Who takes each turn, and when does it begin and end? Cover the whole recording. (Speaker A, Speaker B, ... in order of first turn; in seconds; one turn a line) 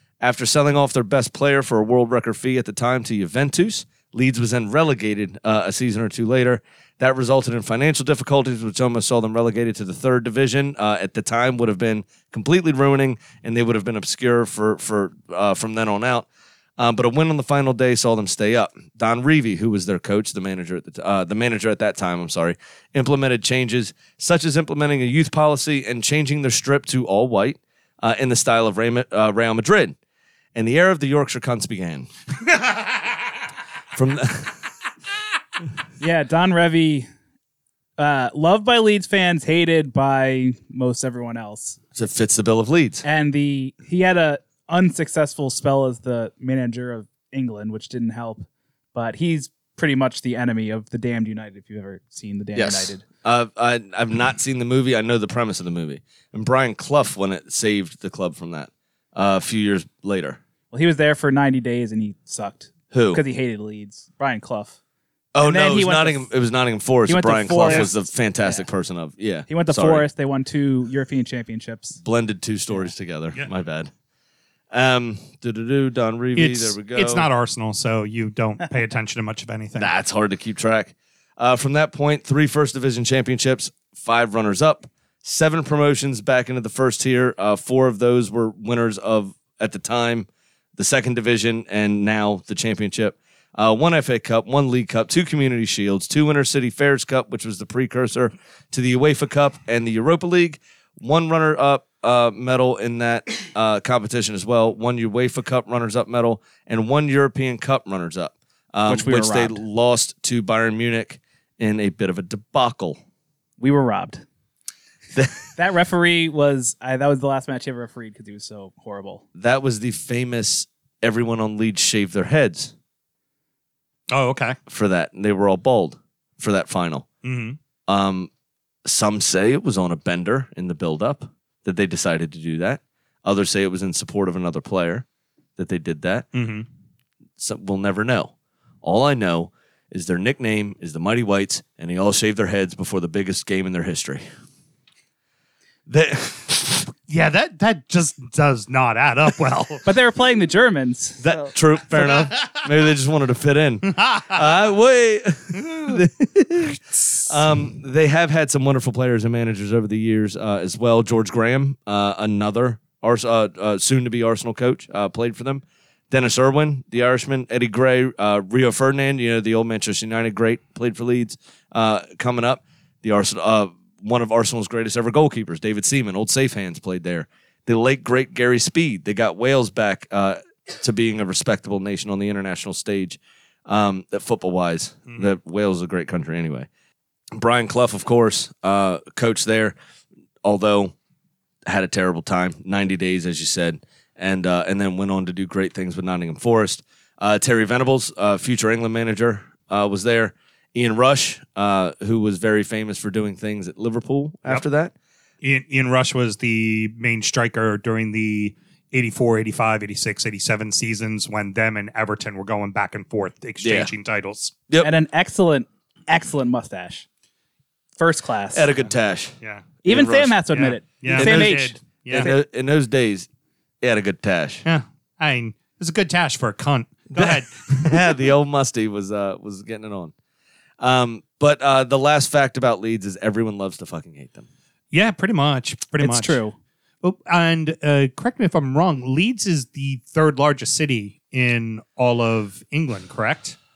Speaker A: 0.2-16.3
Speaker A: 16.8-30.0
Speaker A: 30.5-32.1
Speaker A: 33.9-34.6
Speaker B: 36.0-37.1
Speaker B: 38.0-41.8
Speaker A: 41.9-43.0
Speaker B: 43.0-53.0
Speaker A: 52.5-60.4
Speaker B: 60.7-64.8
Speaker A: 62.9-63.2
Speaker A: 65.3-70.0
Speaker B: 65.4-66.3
Speaker B: 67.0-68.6
Speaker B: 69.5-72.0
Speaker A: 72.0-73.9
Speaker A: 74.7-77.3
Speaker C: 76.4-79.9
Speaker A: 79.8-113.0
Speaker B: 108.9-109.6
Speaker B: 113.6-114.2
Speaker B: 115.5-119.2
Speaker A: 119.4-122.7
Speaker C: 124.1-124.5
Speaker A: 124.7-127.1
Speaker C: 127.2-127.6
Speaker A: 127.9-128.3
Speaker A: 128.8-135.1
Speaker A: 135.6-136.2
Speaker C: 136.3-136.7
Speaker A: 137.4-144.2
Speaker A: 145.9-146.9
Speaker C: 147.1-149.8
Speaker B: 149.9-151.4
Speaker A: 151.2-186.7
Speaker C: 152.1-152.6
Speaker C: 153.9-154.4
Speaker C: 155.6-155.9
Speaker A: 187.3-189.8
Speaker A: 190.4-190.9
Speaker A: 191.7-204.9
Speaker C: 205.4-214.5
Speaker A: 213.6-213.9
Speaker B: 214.8-217.1
Speaker B: 218.0-218.7
Speaker A: 218.5-220.4
Speaker C: 219.4-219.7
Speaker B: 219.8-222.3
Speaker C: 220.5-222.3
Speaker A: 221.0-223.3
Speaker A: 223.8-224.6
Speaker C: 224.6-228.1
Speaker A: 227.1-230.1
Speaker A: 230.8-234.5
Speaker C: 234.9-236.4
Speaker B: 236.0-236.5
Speaker C: 237.0-243.6